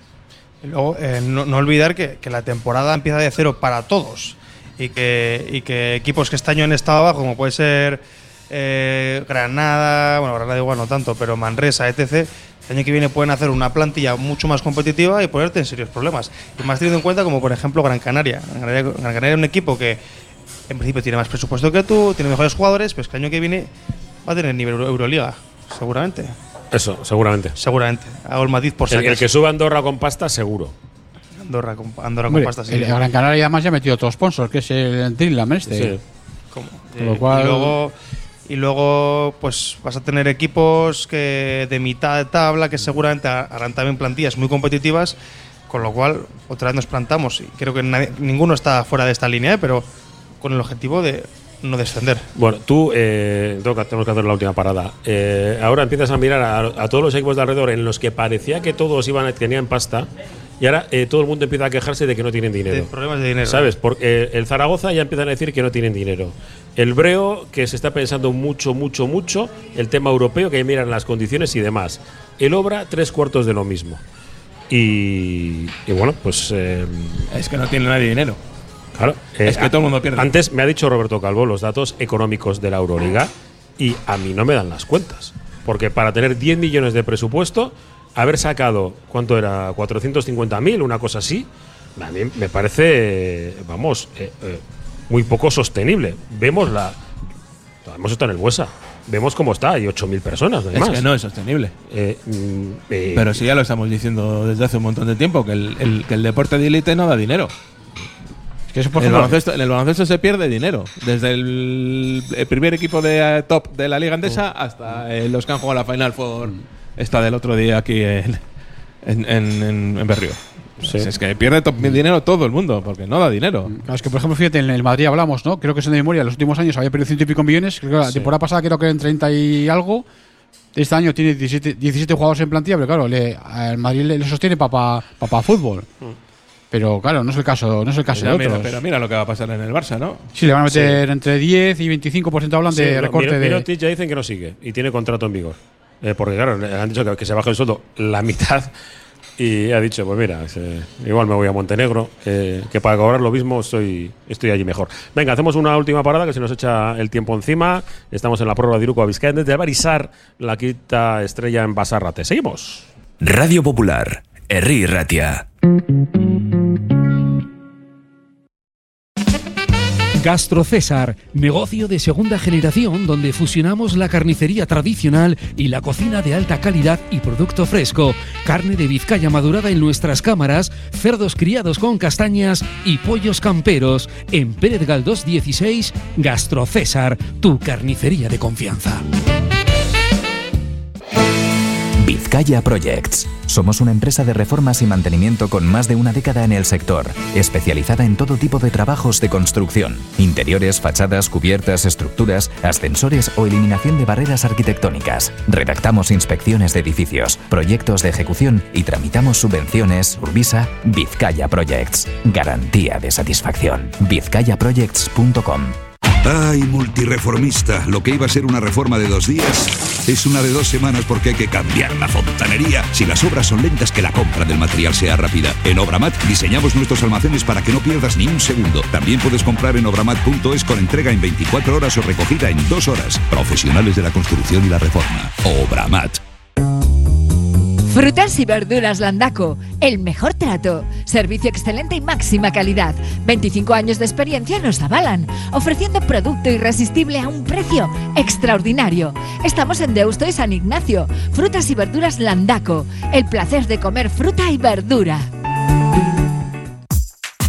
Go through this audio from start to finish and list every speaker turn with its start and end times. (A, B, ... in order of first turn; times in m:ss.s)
0:00.6-0:20.0 A
0:20.7-0:23.7 A
0:24.2-0:26.4 A
0:26.7-0:27.5 B
0:27.6-0:29.2 A
0:28.9-0:30.7 B
0:31.4-0:33.0 A
0:32.3-0:36.0 C
0:35.7-0:36.0 B
0:36.5-0:37.9 A
0:37.0-0:37.8 C
0:38.5-0:45.2 A
0:45.7-0:49.8 A
0:50.4-0:52.2 A
0:52.3-1:00.1 B
1:00.6-1:02.9 B
1:02.7-1:03.7 A
1:03.4-1:14.0 B
1:14.7-1:17.3 B
1:17.3-1:18.4 D
1:19.0-1:37.0 B
1:19.4-1:20.3 D
1:37.8-1:41.0 B
1:40.7-1:41.7 D
1:41.9-1:43.4 B
1:43.1-1:47.5 D
1:48.7-1:49.4 C
1:49.0-1:58.4 D
1:59.0-2:03.7 D
2:03.7-2:10.0 C
2:10.7-2:15.9 C
2:16.7-2:18.8 C
2:18.1-2:20.3 D
2:20.3-2:23.6 C
2:20.7-2:21.0 B
2:22.7-2:28.7 B
2:29.4-2:42.9 B
2:43.2-2:45.4 E
2:50.1-3:09.0 F
3:12.0-3:35.8 G
3:36.2-3:56.2 H
3:57.9-4:15.3 I